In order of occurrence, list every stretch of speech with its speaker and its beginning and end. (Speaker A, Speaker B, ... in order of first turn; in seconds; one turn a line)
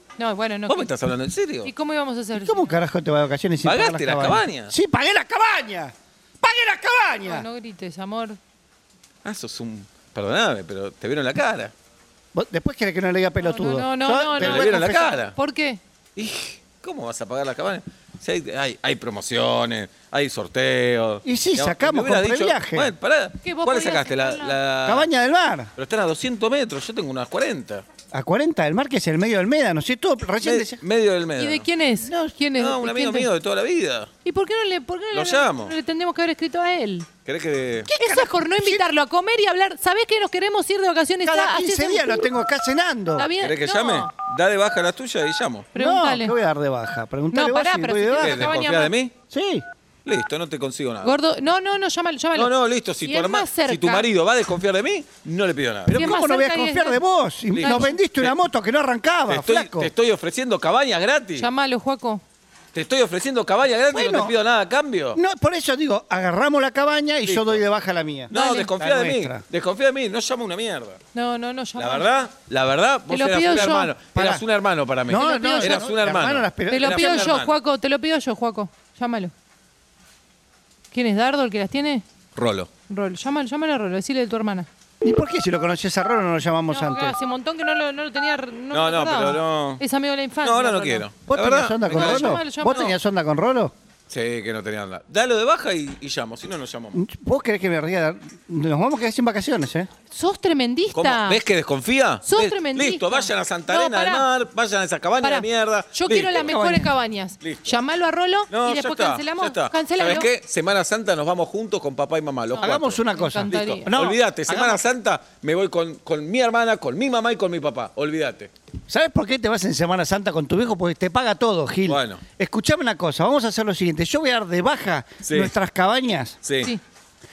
Speaker A: 0.2-0.9
Speaker B: 0.7-1.7
Speaker A: 1.6-2.8
Speaker C: 2.3-7.5
Speaker B: 3.6-4.7
Speaker A: 7.2-8.4
Speaker B: 9.2-11.7
Speaker C: 12.3-15.2
Speaker A: 13.4-15.8
Speaker B: 14.3-15.3
Speaker B: 16.1-25.1
Speaker C: 21.2-22.9
Speaker A: 23.4-24.6
Speaker C: 24.8-25.7
Speaker B: 25.8-27.8
Speaker C: 28.1-30.8
Speaker B: 30.4-31.7
Speaker A: 31.4-33.3
Speaker C: 32.0-32.4
Speaker B: 32.5-34.1
Speaker A: 34.2-37.1
Speaker B: 35.1-35.8
Speaker B: 37.2-37.9
Speaker C: 37.9-38.9
Speaker A: 37.9-42.3
Speaker C: 41.2-43.3
Speaker A: 43.1-44.1
Speaker B: 43.4-45.7
Speaker A: 45.7-46.4
Speaker C: 45.7-48.6
Speaker A: 47.3-48.9
Speaker B: 48.1-49.1
Speaker C: 49.3-49.6
Speaker B: 50.0-51.2
Speaker A: 51.0-54.1
Speaker B: 52.3-56.0
Speaker C: 55.9-59.9
Speaker A: 55.9-57.0
Speaker B: 57.5-58.3
Speaker A: 57.6-58.0
Speaker B: 59.3-61.5
Speaker A: 61.3-62.2
Speaker B: 62.7-65.2
Speaker C: 63.9-64.3
Speaker C: 65.1-69.4
Speaker B: 67.2-67.6
Speaker B: 68.3-71.0
Speaker A: 68.3-68.7
Speaker A: 71.1-72.1
Speaker B: 71.8-77.5
Speaker A: 73.1-73.9
Speaker C: 74.1-74.4
Speaker C: 75.1-77.3
Speaker A: 75.1-75.9
Speaker A: 76.7-79.3
Speaker A: 80.9-82.0
Speaker B: 82.3-82.7
Speaker A: 82.9-84.7
Speaker C: 85.0-87.2
Speaker A: 86.7-91.1
Speaker B: 88.7-89.8
Speaker B: 90.4-92.5
Speaker C: 91.3-93.7
Speaker A: 91.9-93.0
Speaker B: 94.1-97.0
Speaker C: 96.9-99.9
Speaker A: 100.1-101.4
Speaker B: 100.9-106.6
Speaker A: 102.2-104.3
Speaker A: 105.2-110.3
Speaker C: 106.3-106.9
Speaker B: 107.4-107.8
Speaker B: 108.5-118.5
Speaker A: 112.6-113.9
Speaker C: 112.6-114.8
Speaker C: 118.9-126.4
Speaker B: 121.9-122.2
Speaker B: 125.2-125.5
Speaker B: 126.4-126.7